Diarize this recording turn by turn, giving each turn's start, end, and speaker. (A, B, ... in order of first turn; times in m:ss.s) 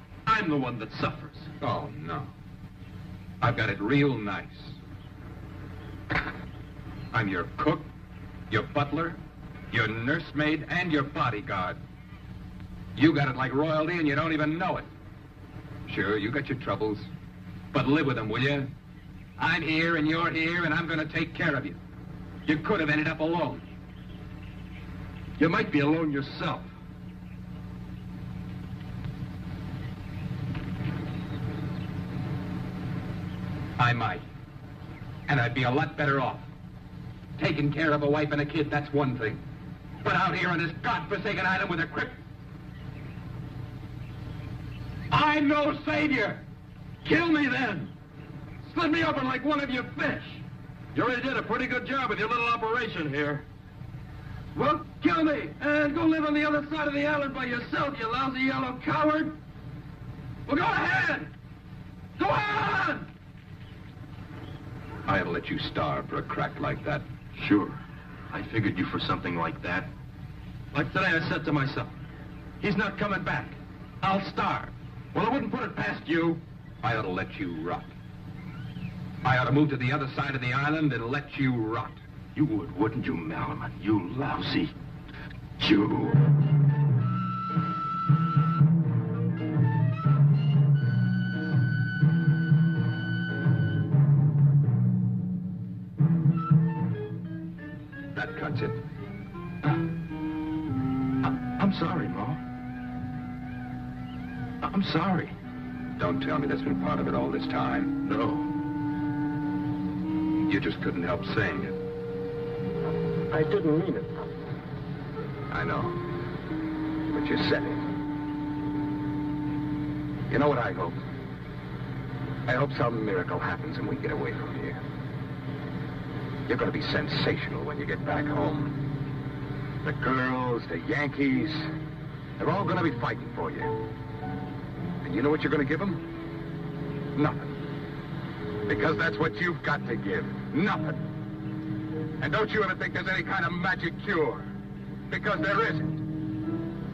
0:00.3-0:01.5 A
0:01.6-0:02.3 B
0:03.4-0:04.8 B
0:07.1-0:07.9 B
0:08.5-0:09.2 B
0:09.7-0:11.8 B
0:13.0-0:14.9 B
0:15.9-0:17.1 B
0:17.7-0:18.7 B
0:19.4-0:21.8 B
0:22.5-0:23.6 B
0:25.4-0:26.7 A
0:33.8-0:34.2 B
0:35.3-0:36.5 B
0:37.4-0:39.4 B
0:40.0-0:42.2 B
0:45.1-0:46.4 B
0:47.0-0:47.9 A
0:48.7-0:53.5 A
0:54.5-0:59.4 A
1:00.5-1:01.3 A
1:02.2-1:03.1 A
1:05.1-1:07.0 B
1:07.3-1:09.9 A
1:10.7-1:11.9 A
1:12.6-1:16.4 A
1:16.8-1:17.9 B
1:19.2-1:22.0 B
1:22.4-1:24.8 A
1:25.6-1:26.2 A
1:38.1-1:38.8 B
1:41.2-1:42.4 A
1:44.6-1:45.4 A
1:46.0-1:48.0 B
1:48.0-1:48.5 A
1:50.5-1:51.8 B
1:53.3-1:54.1 A
1:55.5-1:56.0 B
1:57.1-1:57.9 B
2:00.3-2:01.0 B
2:02.5-2:04.8 B
2:06.5-2:08.8 B
2:09.8-2:11.7 B
2:12.4-2:13.8 B
2:15.0-2:16.0 B
2:17.2-2:17.5 B
2:18.7-2:21.1 B
2:22.2-2:24.5 B
2:25.1-2:26.0 B